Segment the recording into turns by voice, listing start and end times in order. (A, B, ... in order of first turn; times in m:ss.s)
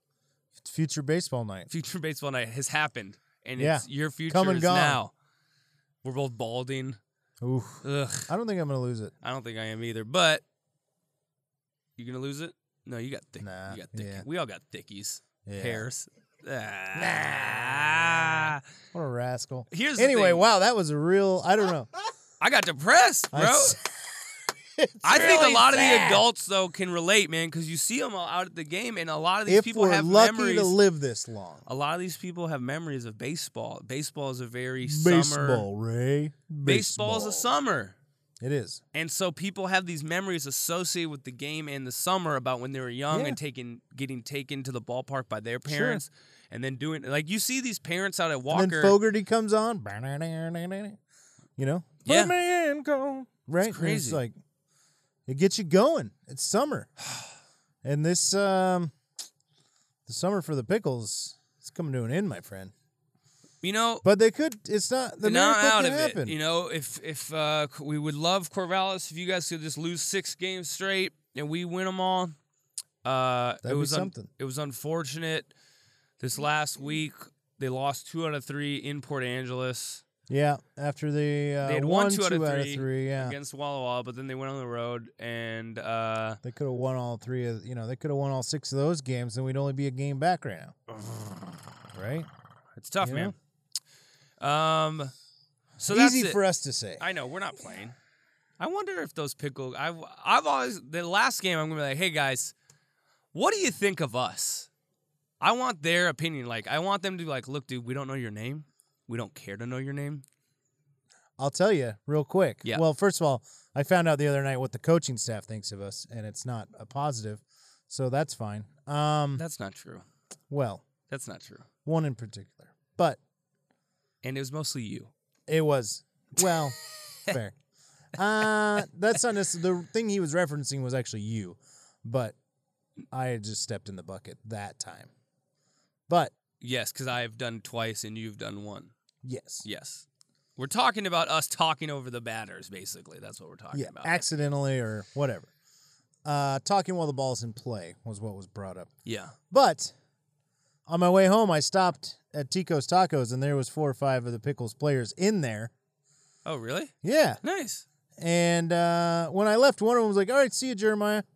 0:00.6-0:01.7 A
0:01.7-0:05.1 B
0:03.6-0:05.0 A
0:06.0-0:07.0 B
0:07.4-0:09.1 A
0:07.8-0:08.3 B
0:09.2-0:10.4 B
0:12.0-0:18.6 B
0:13.4-0:14.2 A
0:15.4-0:15.8 A
0:17.0-0:21.9 A
0:19.7-0:20.4 B
0:22.4-0:23.8 B
0:23.3-0:23.9 A
0:24.8-0:26.2 A
0:25.0-0:30.8 B
0:29.4-0:31.6 A
0:31.6-0:35.7 B
0:34.8-0:37.5 A
0:36.6-0:38.0 B
0:38.4-0:38.8 A
0:38.9-0:49.0 B
0:43.1-0:43.4 A
0:45.6-0:46.0 A
0:48.5-0:51.0 A
0:51.6-0:54.4 A
0:52.0-0:52.3 B
0:53.6-0:54.2 B
0:55.3-0:56.9 A
0:57.8-0:58.9 A
1:00.0-1:02.7 A
1:03.6-1:04.0 B
1:04.0-1:06.3 A
1:05.2-1:12.4 B
1:13.0-1:15.5 B
1:13.6-1:14.3 A
1:16.2-1:20.0 B
1:20.3-1:23.4 A
1:21.6-1:26.4 B
1:26.4-1:30.8 A
1:31.0-1:31.5 B
1:31.9-1:32.3 A
1:32.8-1:33.3 B
1:33.0-1:33.3 A
1:34.4-1:35.1 B
1:35.8-1:36.4 B
1:35.9-1:37.0 A
1:37.0-1:37.9 B
1:38.6-1:42.5 B
1:43.3-1:44.7 B
1:45.4-1:50.2 B
1:51.4-1:59.4 A
1:59.4-2:00.0 B
2:00.5-2:00.8 A
2:01.1-2:01.7 B
2:01.8-2:03.2 A
2:04.2-2:05.1 B
2:05.5-2:07.5 A
2:08.1-2:12.3 A
2:13.1-2:15.1 A
2:16.6-2:18.9 B
2:19.2-2:19.6 A
2:19.6-2:20.0 B
2:20.6-2:24.2 B
2:23.7-2:25.5 A
2:26.2-2:28.9 A
2:29.0-2:29.3 B
2:29.5-2:29.9 A
2:30.9-2:35.7 A
2:36.4-2:37.8 B
2:37.0-2:37.4 A
2:38.2-2:41.2 A